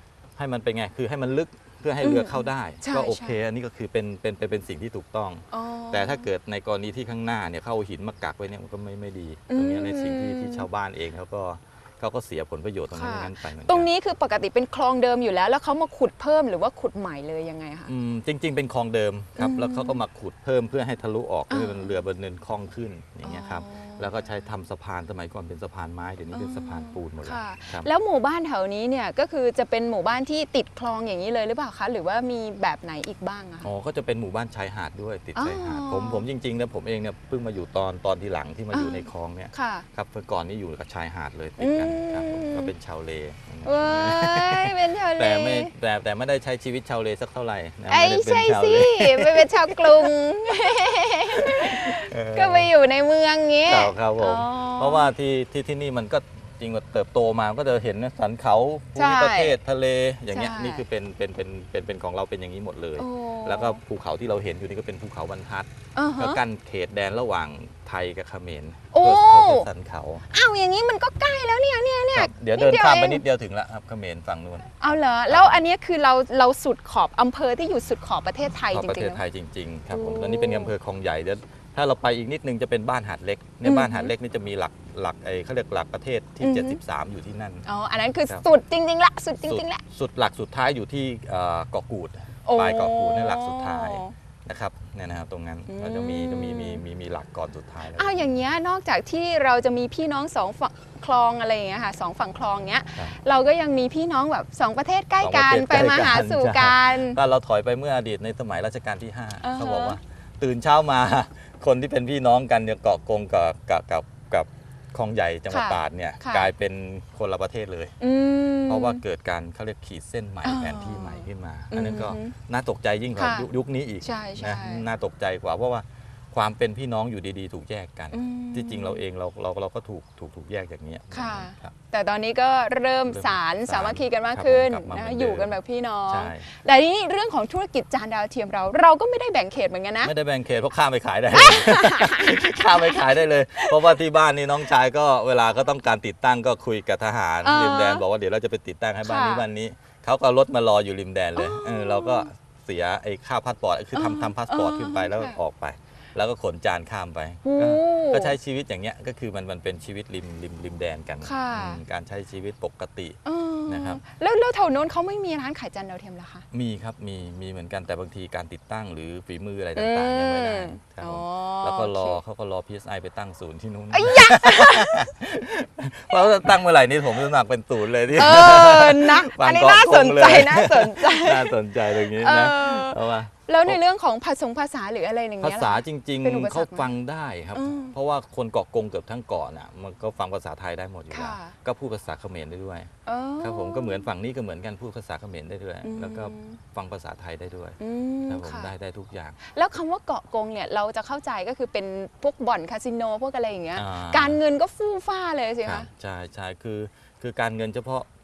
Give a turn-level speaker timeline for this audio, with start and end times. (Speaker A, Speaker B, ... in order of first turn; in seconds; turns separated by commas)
Speaker A: 0.4-13.9, Speaker B: 2.0-3.4, Speaker B: 5.5-6.3, Speaker B: 9.5-10.7, Speaker B: 12.9-17.9, Speaker A: 17.9-27.9, Speaker B: 19.4-20.0, Speaker B: 21.5-21.9, Speaker B: 23.2-24.4, Speaker B: 26.3-33.7, Speaker A: 33.6-50.1, Speaker B: 35.4-36.3, Speaker B: 38.7-39.9, Speaker B: 41.6-42.7, Speaker B: 43.6-45.7, Speaker B: 47.9-55.1, Speaker A: 51.3-52.7, Speaker A: 53.7-70.3, Speaker B: 59.0-59.6, Speaker B: 60.3-60.9, Speaker B: 63.0-63.8, Speaker B: 66.0-66.4, Speaker B: 68.9-69.7, Speaker B: 70.3-73.2, Speaker A: 72.1-75.6, Speaker B: 74.8-79.2, Speaker A: 78.7-87.7, Speaker B: 79.9-80.7, Speaker B: 83.6-84.1, Speaker B: 86.4-86.8, Speaker B: 87.7-89.8, Speaker A: 89.4-98.3, Speaker B: 92.5-94.1, Speaker B: 95.7-96.8, Speaker B: 97.9-107.2, Speaker A: 105.2-117.9, Speaker B: 109.4-110.0, Speaker B: 115.5-116.5, Speaker B: 118.0-119.0, Speaker A: 118.7-131.8, Speaker B: 120.4-122.3, Speaker B: 123.2-123.5, Speaker B: 124.0-124.9, Speaker B: 128.1-129.0, Speaker B: 131.1-140.1, Speaker A: 133.1-135.6, Speaker A: 136.1-136.5, Speaker A: 140.0-164.0, Speaker B: 141.3-144.0, Speaker B: 147.4-148.0, Speaker B: 149.0-149.5, Speaker B: 151.4-152.3, Speaker B: 153.9-155.4, Speaker B: 157.4-158.4, Speaker B: 161.2-161.8, Speaker B: 163.2-166.4, Speaker A: 166.5-183.8, Speaker B: 169.8-172.2, Speaker B: 173.9-175.2, Speaker B: 178.1-186.9, Speaker A: 185.4-192.9, Speaker B: 187.5-188.0, Speaker B: 191.1-191.6, Speaker B: 193.1-194.1, Speaker A: 193.4-197.8, Speaker B: 195.8-196.6, Speaker B: 197.8-198.7, Speaker A: 198.3-199.4, Speaker B: 199.5-205.9, Speaker A: 203.8-204.4, Speaker A: 205.6-208.1